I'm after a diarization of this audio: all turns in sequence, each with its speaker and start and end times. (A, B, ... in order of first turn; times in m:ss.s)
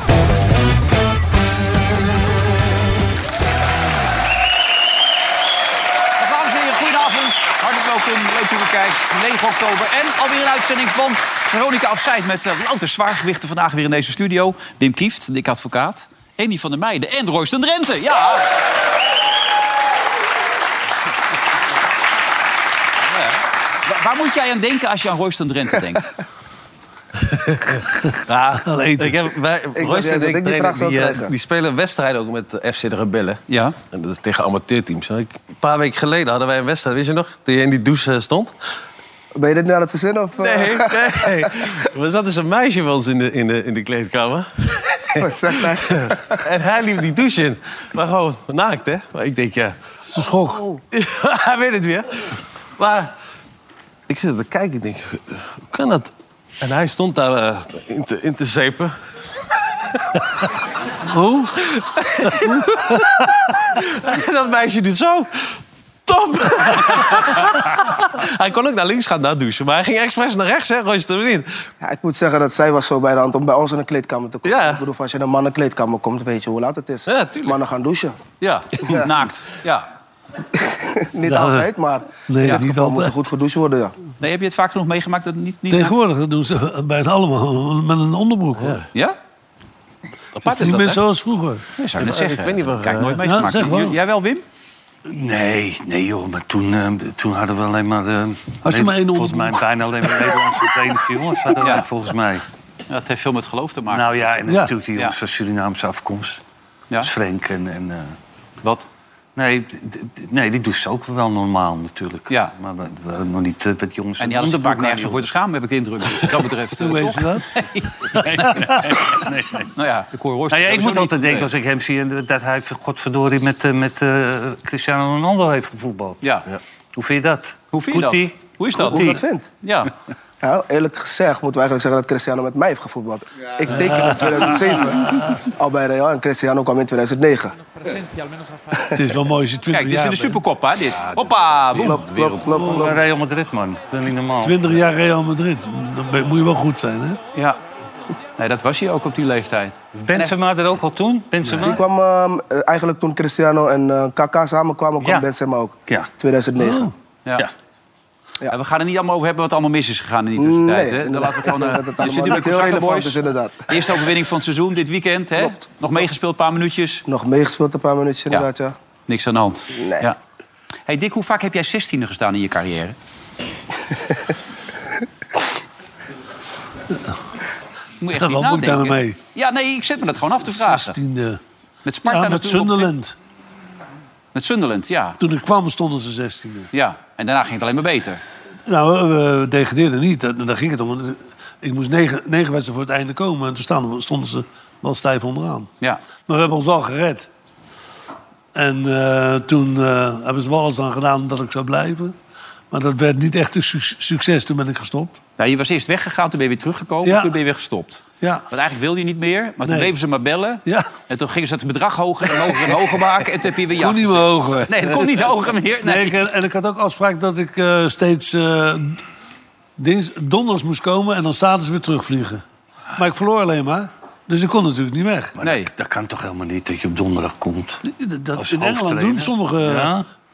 0:06.2-0:18.5 A
0:23.8-0:26.1 A
0:27.3-0:38.5 B
0:28.6-0:29.2 C
0:29.8-0:31.3 D
0:33.5-0:33.8 A
0:39.4-0:41.7 D
0:40.4-0:49.8 B
0:45.2-0:46.4 D
0:50.1-0:50.6 C
0:50.9-0:53.1 B
0:54.1-0:59.0 B
1:00.1-1:00.5 B
1:01.1-1:11.7 B
1:11.8-1:18.2 D
1:14.4-1:14.8 B
1:17.1-1:17.6 B
1:18.4-1:19.9 A
1:20.6-1:24.0 D
1:21.2-1:21.7 C
1:22.3-1:23.2 C
1:24.2-1:25.9 A
1:25.7-1:28.8 C
1:28.6-1:28.8 B
1:30.4-1:31.0 B
1:30.4-1:31.6 C
1:31.8-1:34.4 A
1:32.0-1:33.2 B
1:33.2-1:34.0 C
1:35.0-1:42.4 E
1:38.6-1:39.6 C
1:41.6-1:41.9 A
1:42.9-1:44.3 A
1:43.9-1:46.4 E
1:44.5-1:44.7 C
1:47.0-1:48.2 E
1:49.4-1:55.3 E
1:54.2-1:58.3 A
1:56.8-1:57.7 C
1:58.1-1:59.7 E
1:59.8-2:01.5 A
2:00.5-2:06.2 E
2:07.0-2:09.2 E
2:07.7-2:09.9 A
2:08.8-2:09.4 D
2:10.4-2:17.6 D
2:13.7-2:15.4 C
2:19.0-2:20.4 C
2:19.7-2:22.1 A
2:20.9-2:22.6 B
2:21.8-2:23.0 D
2:22.6-2:24.6 E
2:24.4-2:27.2 C
2:28.4-2:30.4 A
2:30.0-2:31.8 E
2:31.5-2:36.9 D
2:35.0-2:35.3 E
2:36.6-2:36.9 C
2:38.5-2:47.0 A
2:40.4-2:43.9 D
2:47.1-2:48.8 D
2:49.1-2:50.2 A
2:49.7-2:50.0 D
2:50.9-2:53.0 A
2:56.9-2:57.2 C
2:58.0-3:01.0 A
2:58.2-2:59.2 C
3:00.3-3:01.4 C
3:01.8-3:02.9 A
3:02.1-3:03.2 C
3:04.3-3:05.2 A
3:05.2-3:06.7 C
3:06.7-3:08.2 A
3:08.7-3:15.7 C
3:16.3-3:17.3 C
3:18.5-3:22.2 C
3:22.7-3:25.2 C
3:25.4-3:36.2 A
3:27.0-3:27.3 C
3:28.2-3:28.5 C
3:29.6-3:29.9 C
3:30.7-3:30.9 C
3:32.3-3:32.7 C
3:33.8-3:39.0 C
3:39.8-3:42.4 C
3:43.0-3:45.4 C
3:45.4-3:47.8 E
3:45.4-3:45.7 A
3:47.8-3:49.9 C
3:48.4-3:50.0 E